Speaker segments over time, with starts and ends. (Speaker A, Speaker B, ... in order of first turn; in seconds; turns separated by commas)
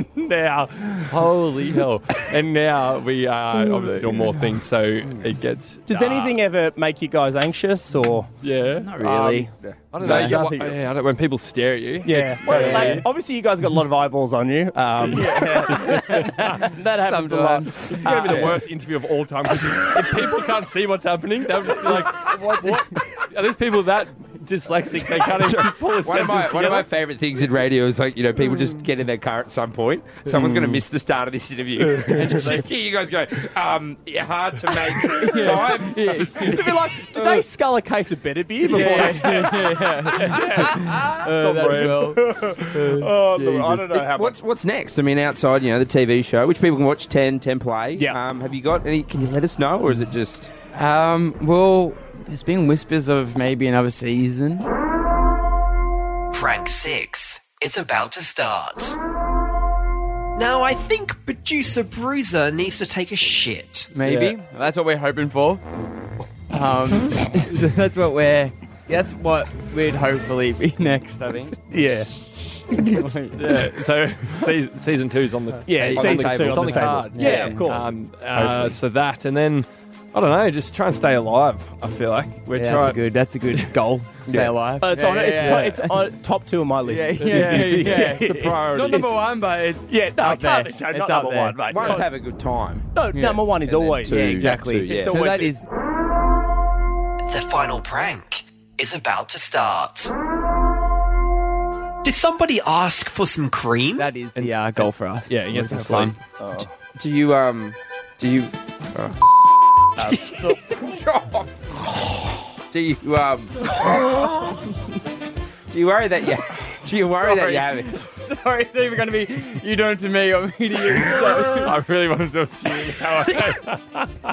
Speaker A: 0.5-6.4, Speaker B: 3.8-4.1, Speaker C: 5.9-8.3, Speaker A: 8.4-9.4, Speaker B: 8.8-10.4, Speaker A: 9.9-13.1, Speaker C: 10.0-10.8, Speaker C: 12.0-18.6, Speaker B: 12.4-13.0, Speaker A: 15.0-16.4, Speaker B: 15.1-18.4, Speaker A: 17.8-26.9, Speaker D: 18.3-18.5, Speaker B: 21.8-23.0, Speaker D: 25.4-36.6, Speaker B: 30.3-30.8, Speaker B: 35.2-37.4, Speaker C: 35.2-35.6, Speaker C: 36.3-41.0, Speaker B: 38.7-43.8, Speaker A: 39.0-39.5, Speaker A: 40.2-42.1, Speaker C: 41.8-44.4, Speaker D: 43.9-50.5, Speaker B: 50.7-54.7, Speaker E: 56.3-59.0, Speaker E: 60.4-63.9, Speaker B: 63.9-65.6, Speaker A: 64.0-64.3, Speaker B: 66.5-71.5, Speaker C: 71.7-72.1, Speaker B: 72.7-73.7, Speaker A: 73.3-83.0, Speaker C: 75.7-78.7, Speaker D: 75.9-77.7, Speaker B: 82.5-86.0, Speaker D: 84.3-84.5, Speaker C: 84.8-88.6, Speaker B: 86.8-91.6, Speaker A: 87.2-88.1, Speaker D: 88.1-89.1, Speaker C: 89.9-92.1, Speaker D: 91.7-93.0, Speaker C: 92.9-95.5, Speaker B: 93.1-93.5, Speaker D: 93.5-95.3, Speaker B: 94.0-95.6, Speaker E: 97.3-100.1, Speaker E: 102.0-104.1, Speaker B: 104.0-106.2, Speaker A: 104.3-106.2, Speaker C: 106.4-106.7, Speaker D: 107.0-113.5, Speaker C: 110.0-110.6, Speaker D: 115.7-117.9, Speaker B: 117.0-121.8, Speaker A: 121.1-123.8